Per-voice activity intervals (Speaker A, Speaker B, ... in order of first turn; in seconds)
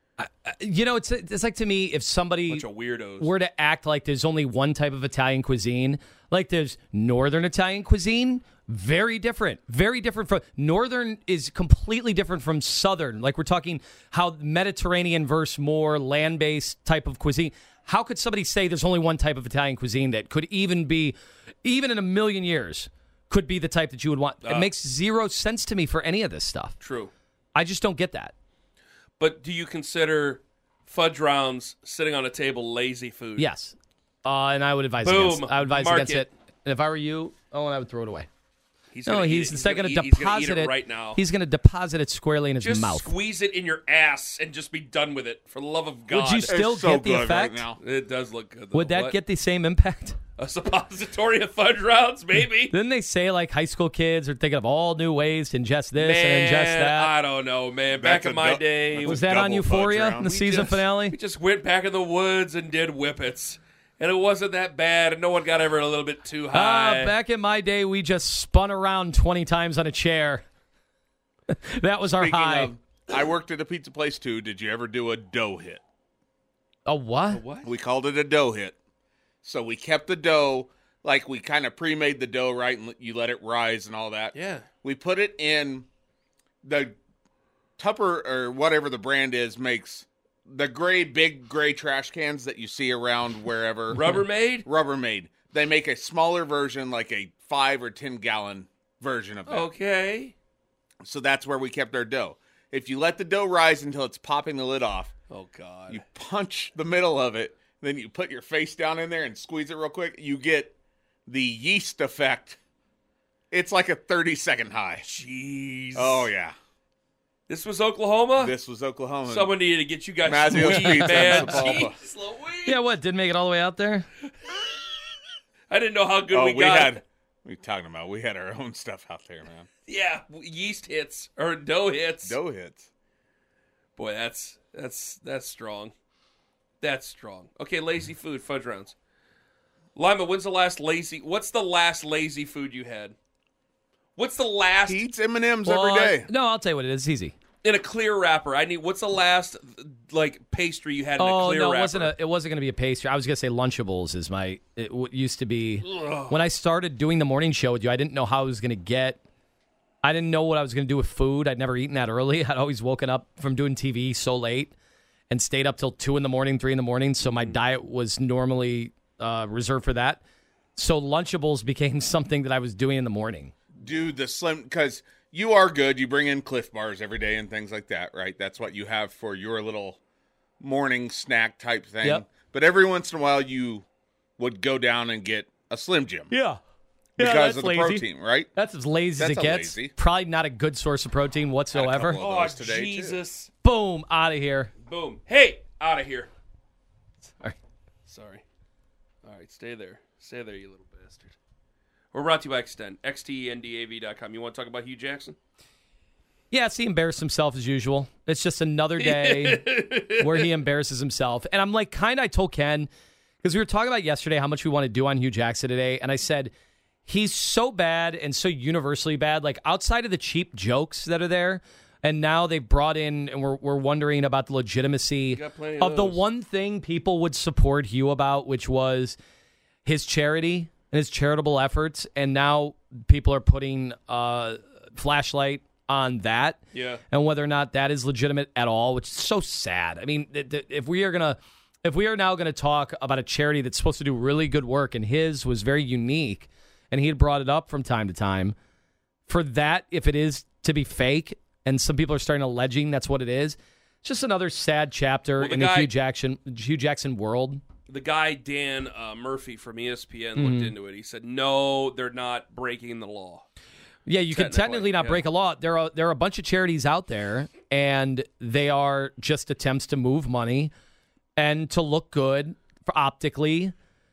Speaker A: 0.2-2.6, 3.2-26.8, 27.5-28.3, 33.4-38.3, 39.0-43.1, 46.1-47.6, 48.7-50.2, 52.7-57.1, 59.0-61.2, 66.5-70.4, 71.5-72.7, 76.8-77.4, 120.5-121.8, 122.7-124.1, 145.6-147.3, 151.2-159.2, 160.0-164.7, 165.3-170.2, 170.8-173.5, 186.3-186.6, 187.2-192.2, 193.6-194.7, 197.3-197.6, 206.5-212.9, 213.4-216.5, 217.1-229.2, 229.8-248.6, 249.3-257.6, 260.4-260.7, 264.1-270.7, 271.4-273.7
Speaker B: 2.5-3.3, 24.4-24.7, 26.8-27.1, 29.2-33.5, 35.0-36.3, 38.9-41.2, 42.6-46.5, 47.8-49.2, 50.4-52.7, 56.0-59.3, 60.2-67.1, 77.3-77.7, 84.3-84.7, 93.9-94.7, 99.5-100.3, 105.3-106.0, 115.0-116.3, 117.5-118.5, 119.3-122.8, 125.7-127.0, 129.9-132.4, 133.9-135.9, 136.8-138.9, 139.9-143.1, 144.2-145.0, 147.6-152.1, 155.8-156.4, 167.3-167.6, 192.1-193.5, 194.8-196.3, 198.1-198.4, 199.2-201.3, 202.1-205.3, 209.0-210.5, 225.3-226.2, 236.7-237.0, 255.4-255.9, 257.9-263.4, 264.3-265.2
Speaker C: 46.5-47.8, 57.9-60.3, 72.2-75.8, 77.6-78.8, 79.4-85.9, 86.6-87.0, 87.8-99.7, 101.0-105.1, 105.9-110.7, 111.3-112.6, 113.5-115.0, 115.9-116.5, 118.4-119.5, 120.2-121.9, 126.3-129.7, 132.2-132.9, 144.9-146.3, 173.8-180.0, 180.6-183.8, 184.4-186.3, 187.2-188.5, 189.2-189.9, 191.7-193.2